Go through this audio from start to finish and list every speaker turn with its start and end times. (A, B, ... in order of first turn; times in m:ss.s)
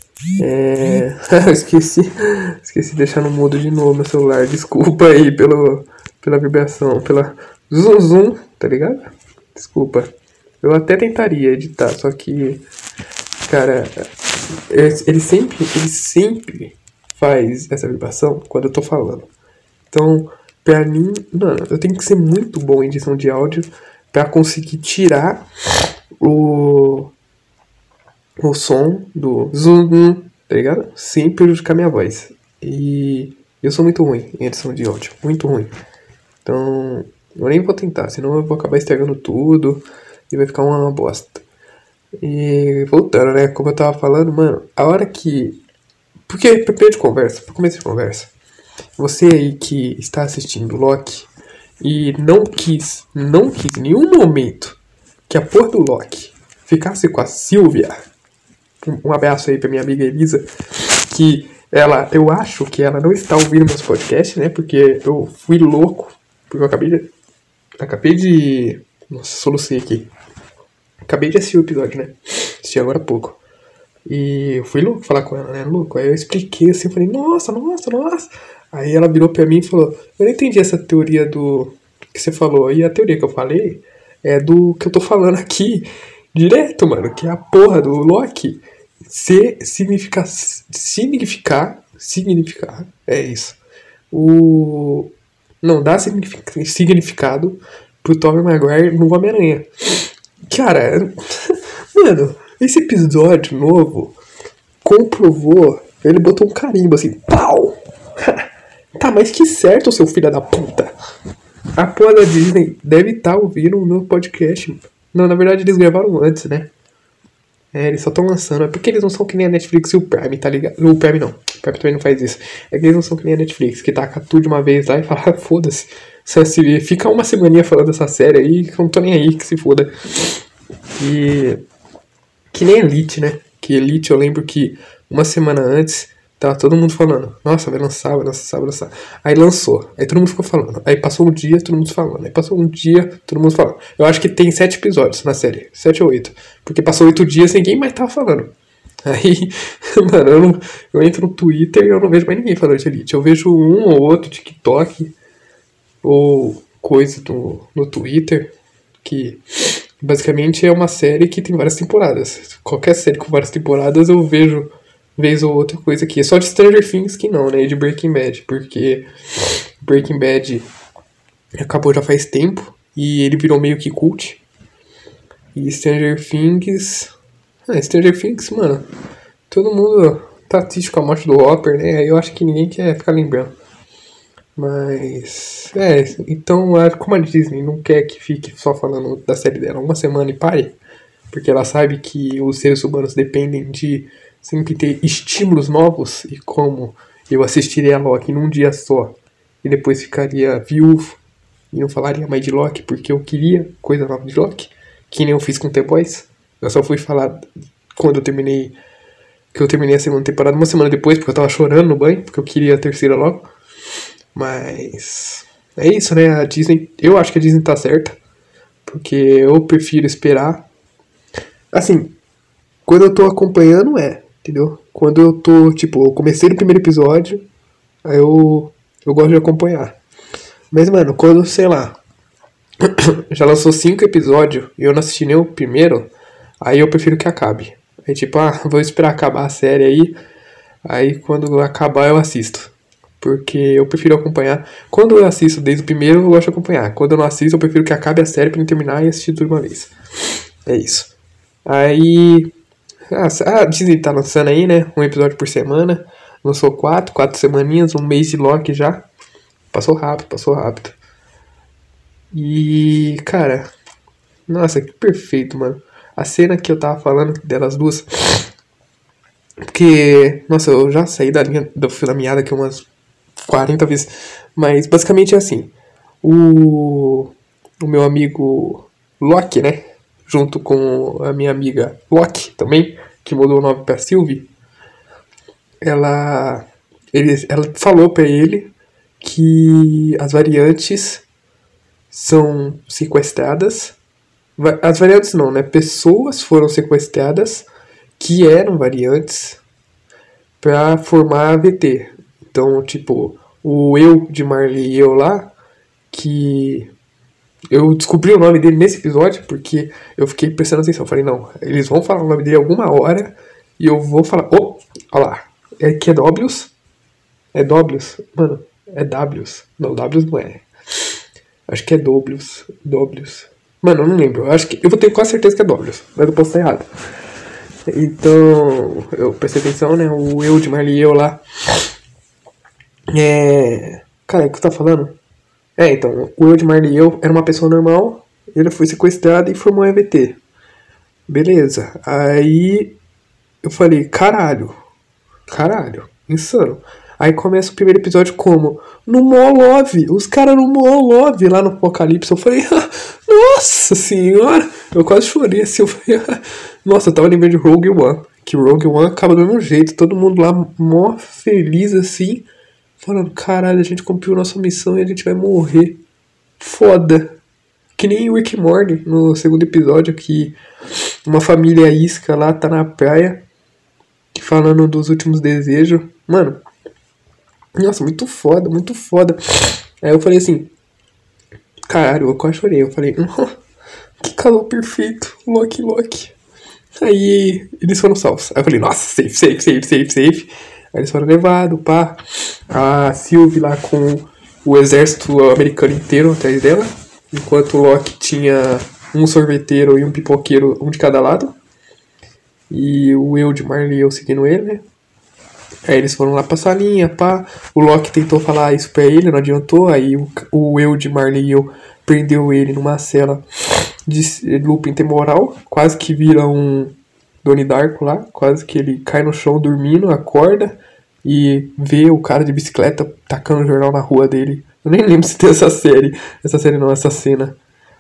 0:00.4-0:12.6 A
0:13.5-0:14.1 A
0:14.7-0:19.3 A
0:19.9-0:25.5 A
0:26.2-0:27.1 A
0:28.4-0:35.7 A
0:36.4-0:41.4 A
0:42.2-0:45.6 A
0:46.3-0:48.3 A
0:49.0-0:51.3 A
0:51.8-0:58.0 A
0:58.8-1:00.5 A
1:01.1-1:07.1 A
1:07.8-1:10.1 A
1:11.1-1:13.4 A
1:14.1-1:33.6 A
1:34.1-1:39.7 A
1:40.4-1:44.2 A
1:44.8-1:50.9 A
1:51.8-1:56.7 A
1:57.7-2:10.4 A
2:11.0-2:11.6 A
2:12.5-2:35.2 A
2:36.0-2:38.5 A
2:39.0-2:39.4 A
2:40.0-2:49.1 A
2:49.8-2:50.7 A
2:51.6-2:54.4 A
2:55.5-2:57.1 A
2:57.7-2:58.9 A
2:59.5-3:03.6 A
3:04.6-3:10.8 A
3:11.3-3:21.2 A
3:21.7-3:28.8 A
3:29.5-3:33.5 A
3:34.4-3:38.2 A
3:38.9-3:40.7 A
3:41.7-3:42.2 A
3:42.9-3:47.4 A
3:48.0-3:50.0 A
3:50.7-3:52.0 A
3:52.8-3:56.1 A
3:56.6-4:00.2 A
4:00.8-4:09.9 A
4:10.7-4:11.1 A
4:11.6-4:12.5 A
4:13.1-4:19.1 A
4:19.7-4:21.0 A
4:22.3-4:23.7 A
4:24.5-4:28.4 A
4:29.7-4:32.9 A
4:33.4-4:44.5 A
4:45.8-4:51.3 A
4:52.1-4:54.0 A
4:54.6-4:57.7 A
4:58.2-4:59.6 A
5:00.6-5:05.5 A
5:06.1-5:06.9 A
5:07.7-5:16.7 A
5:17.5-5:20.7 A
5:21.7-5:26.9 A
5:27.9-5:31.4 A
5:33.1-5:35.2 A
5:35.8-5:40.4 A
5:41.3-5:43.0 A
5:43.6-5:44.8 A
5:45.5-6:02.5 A
6:03.0-6:06.0 A
6:06.6-6:07.4 A
6:08.0-6:13.4 A
6:14.3-6:16.6 A
6:17.8-6:20.7 A
6:21.9-6:23.5 A
6:24.2-6:26.4 A
6:27.0-6:41.6 A
6:42.7-6:44.8 A
6:45.8-6:53.4 A
6:54.1-7:07.6 A